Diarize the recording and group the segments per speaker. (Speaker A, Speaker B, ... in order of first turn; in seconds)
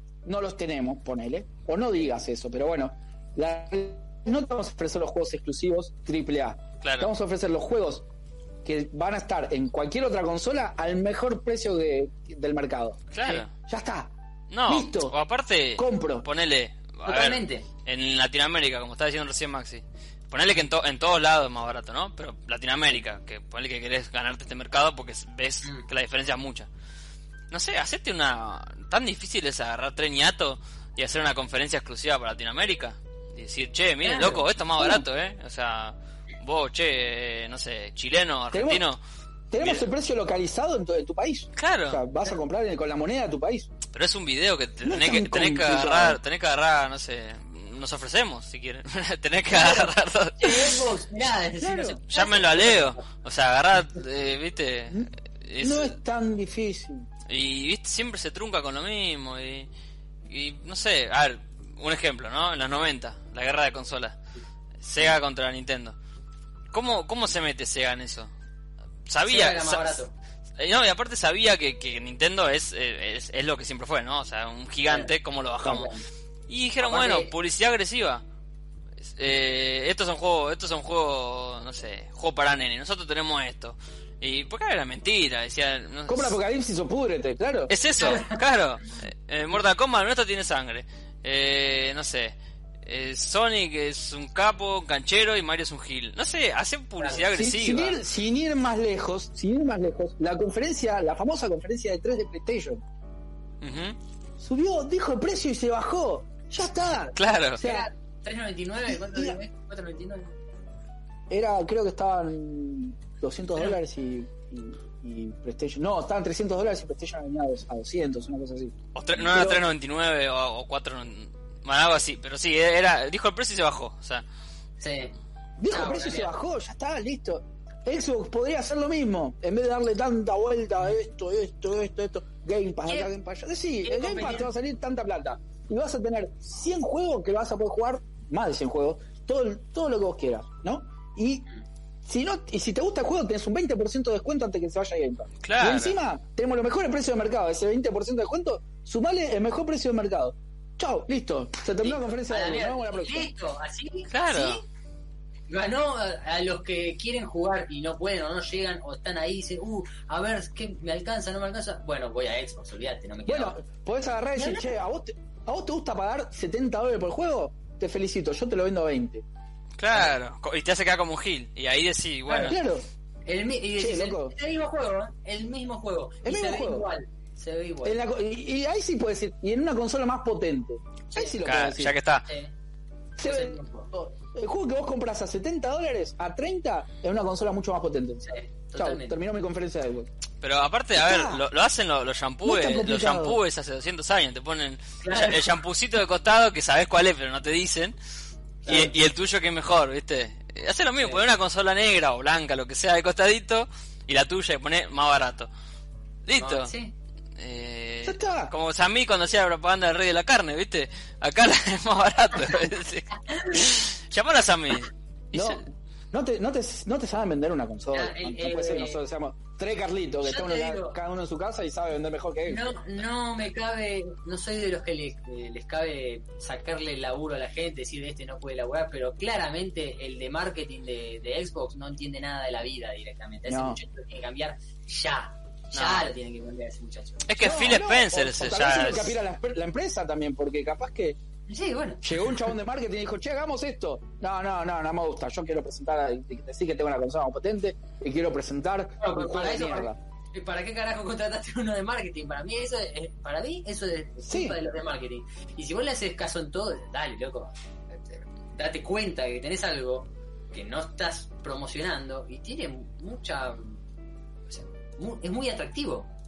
Speaker A: 0.2-8.1, 8.6-14.1, 14.7-15.1, 15.8-16.3, 34.8-35.0, 38.5-38.9, 39.5-43.7, 44.8-46.2, 51.6-52.0, 55.6-57.1, 86.1-87.7, 97.3-102.8, 104.4-107.9, 108.9-109.4, 111.3-119.6, 125.6-141.5, 142.0-153.3, 163.2-169.2, 172.4-172.8, 173.8-174.3, 176.2-176.9, 177.8-182.0, 183.2-190.1, 190.9-191.4, 192.4-193.4, 208.0-208.5, 215.3-222.8, 233.5-233.8, 237.4-241.2, 242.0-250.0, 254.2-254.6
Speaker B: 6.8-7.1, 13.1-13.5, 14.5-26.7, 27.5-39.0, 39.6-39.9, 41.5-42.0, 43.9-50.8, 52.1-55.9, 57.3-59.7, 60.3-64.2, 64.8-66.0, 66.7-68.3, 69.1-70.0, 70.6-75.9, 76.5-78.2, 79.0-86.4, 87.7-98.0, 103.6-104.0, 107.1-107.6, 118.9-124.2, 145.4-145.9, 154.1-154.6, 169.8-172.6, 181.4-182.2, 190.4-197.9, 198.7-205.5, 206.2-206.7, 207.4-215.6, 235.7-236.1, 237.3-239.2
Speaker C: 17.1-17.7, 34.0-34.4, 49.5-53.0, 69.2-70.1, 75.6-76.0, 76.8-77.3, 88.0-88.4, 107.6-110.3, 124.8-125.1, 125.7-126.3, 133.8-134.5, 151.8-154.6, 155.5-163.6, 164.3-164.8, 172.3-172.6, 173.2-178.0, 181.1-181.4, 182.2-182.5, 183.2-183.9, 188.2-189.2, 195.0-195.5, 198.7-198.9, 206.3-206.9, 213.2-213.6, 217.9-219.0, 220.2-221.0, 222.4-237.3, 241.5-242.4, 249.0-263.8, 264.5-266.1